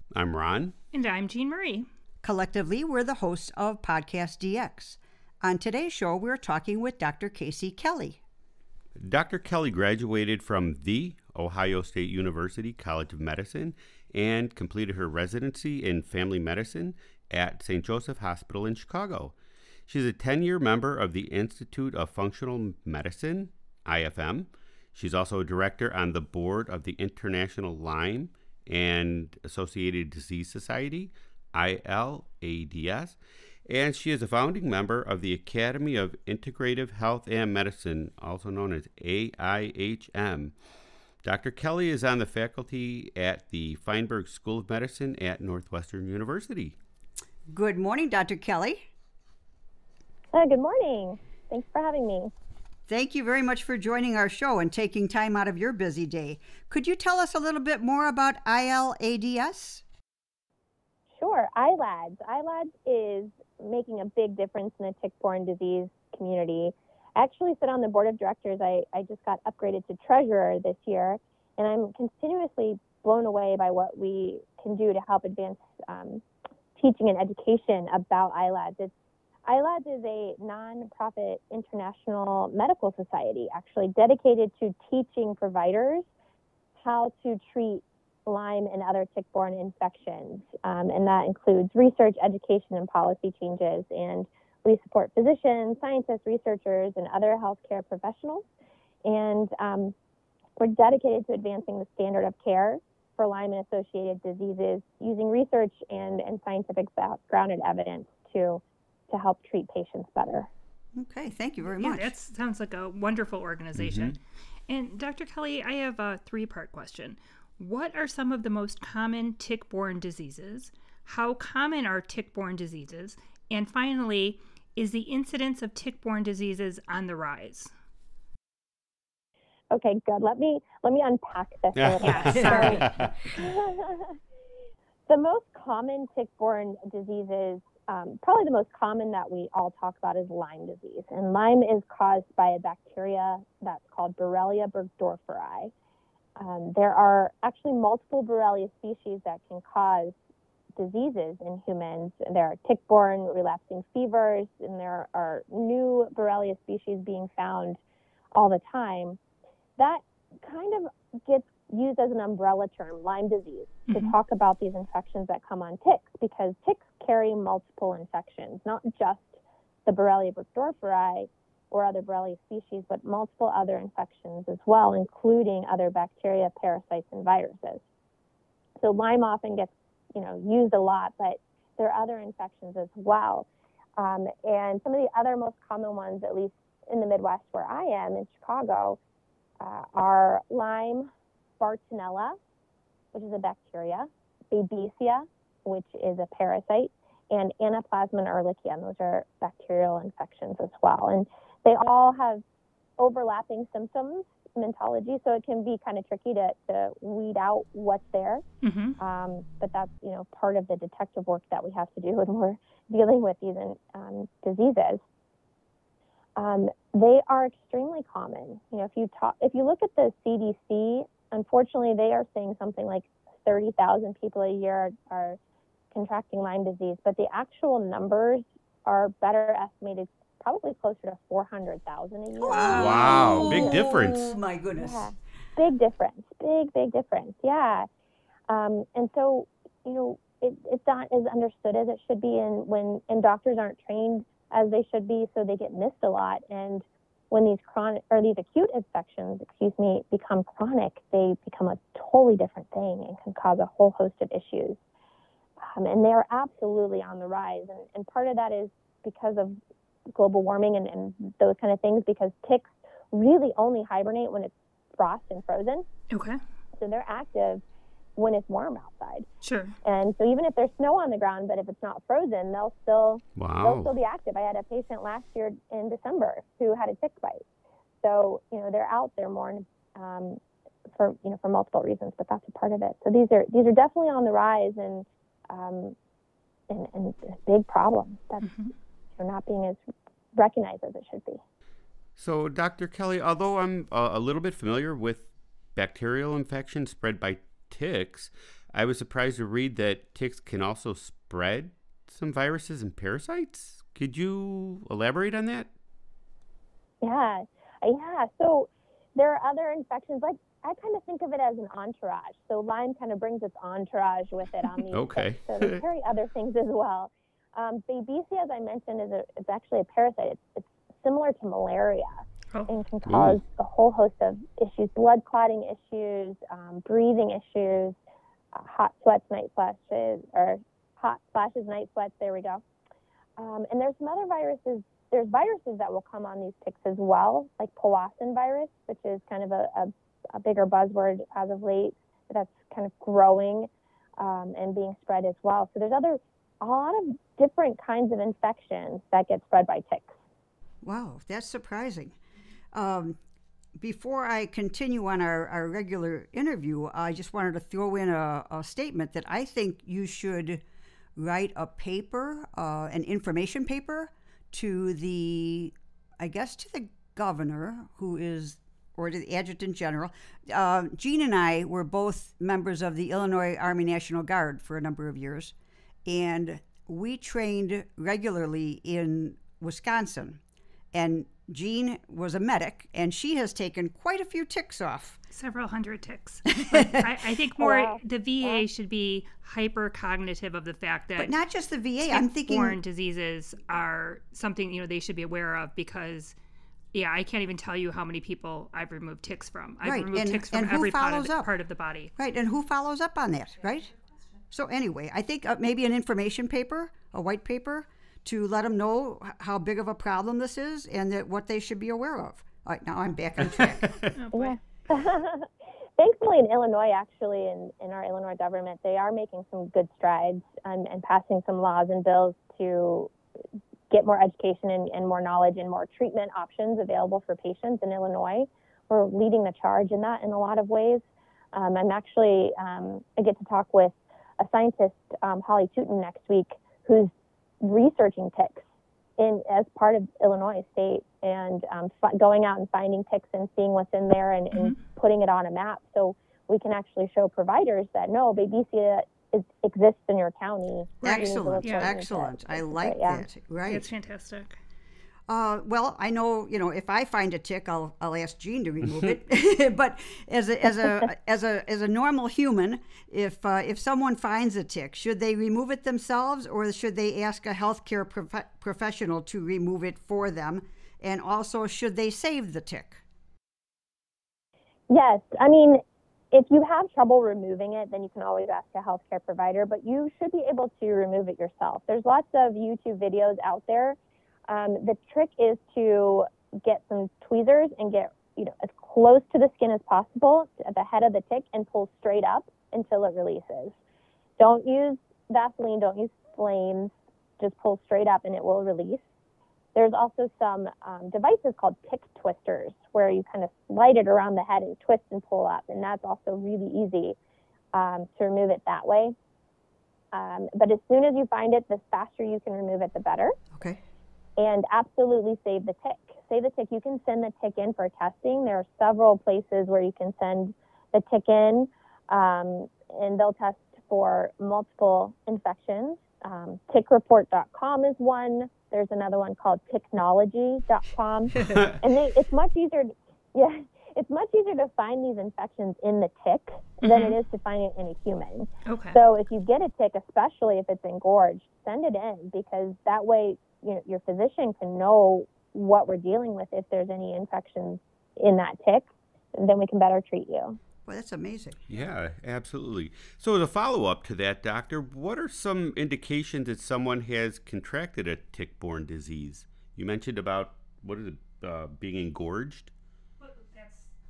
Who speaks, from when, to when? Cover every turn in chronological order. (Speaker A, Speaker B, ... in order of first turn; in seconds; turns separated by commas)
Speaker A: 0.1-0.7, Speaker B: 0.9-1.9, Speaker C: 2.2-8.2, Speaker A: 9.0-19.3, Speaker A: 19.9-40.5, Speaker A: 41.2-46.7, Speaker C: 47.5-48.8, Speaker D: 50.3-52.3, Speaker C: 52.9-59.8, Speaker D: 61.2-76.2, Speaker D: 76.7-78.9, Speaker D: 79.5-86.1, Speaker D: 86.8-98.5, Speaker D: 99.0-99.9, Speaker D: 100.6-110.5, Speaker C: 110.9-112.1, Speaker B: 111.7-127.7, Speaker A: 113.8-114.1, Speaker D: 129.7-134.1, Speaker A: 131.8-133.1, Speaker B: 132.0-132.9, Speaker C: 132.4-132.8, Speaker D: 135.1-145.7, Speaker D: 146.4-150.2, Speaker D: 150.8-157.8, Speaker D: 158.3-159.2, Speaker D: 159.8-177.8, Speaker D: 178.8-189.0, Speaker D: 189.6-192.3, Speaker D: 193.1-202.4, Speaker D: 203.0-208.4, Speaker B: 208.6-209.0, Speaker D: 209.0-215.0, Speaker D: 216.4-225.4, Speaker D: 225.9-233.7, Speaker C: 232.4-235.0, Speaker A: 232.5-234.3, Speaker D: 234.8-237.9, Speaker D: 238.5-254.8, Speaker D: 255.6-259.6, Speaker D: 260.1-265.9, Speaker B: 266.1-266.4, Speaker D: 266.8-267.6, Speaker D: 268.1-269.3, Speaker B: 269.4-269.8, Speaker D: 269.8-277.4, Speaker A: 273.4-273.9, Speaker D: 278.0-280.4, Speaker D: 280.9-285.9, Speaker D: 286.7-288.5, Speaker B: 288.4-288.7, Speaker D: 289.2-289.8, Speaker D: 290.3-291.4, Speaker A: 292.2-305.7, Speaker D: 307.0-327.9, Speaker A: 314.9-315.8, Speaker A: 323.1-323.4, Speaker D: 328.5-332.6, Speaker D: 333.4-350.2, Speaker C: 350.8-352.1, Speaker C: 352.7-353.2, Speaker C: 353.8-360.6, Speaker C: 361.1-375.5, Speaker C: 376.0-380.4, Speaker C: 380.9-385.2, Speaker B: 385.3-391.3, Speaker C: 386.6-387.1, Speaker D: 387.6-388.6, Speaker C: 391.2-392.8, Speaker B: 392.1-396.3, Speaker B: 396.9-402.1, Speaker C: 399.8-401.5, Speaker C: 402.1-403.9, Speaker C: 404.5-414.0, Speaker A: 413.4-414.1, Speaker B: 414.1-414.6, Speaker D: 414.3-423.1, Speaker D: 423.9-438.6, Speaker D: 439.2-453.2, Speaker B: 451.0-451.9, Speaker C: 451.0-453.9, Speaker B: 453.7-454.5, Speaker C: 455.3-473.0, Speaker A: 458.8-459.1, Speaker D: 474.9-475.8, Speaker D: 476.3-493.8, Speaker D: 494.4-499.0, Speaker D: 499.7-507.2, Speaker D: 507.7-509.1, Speaker D: 510.1-513.4, Speaker D: 514.4-550.6, Speaker A: 531.4-531.8, Speaker B: 536.8-537.1, Speaker B: 538.6-539.0, Speaker C: 550.8-551.6, Speaker A: 551.7-562.7, Speaker B: 563.2-563.9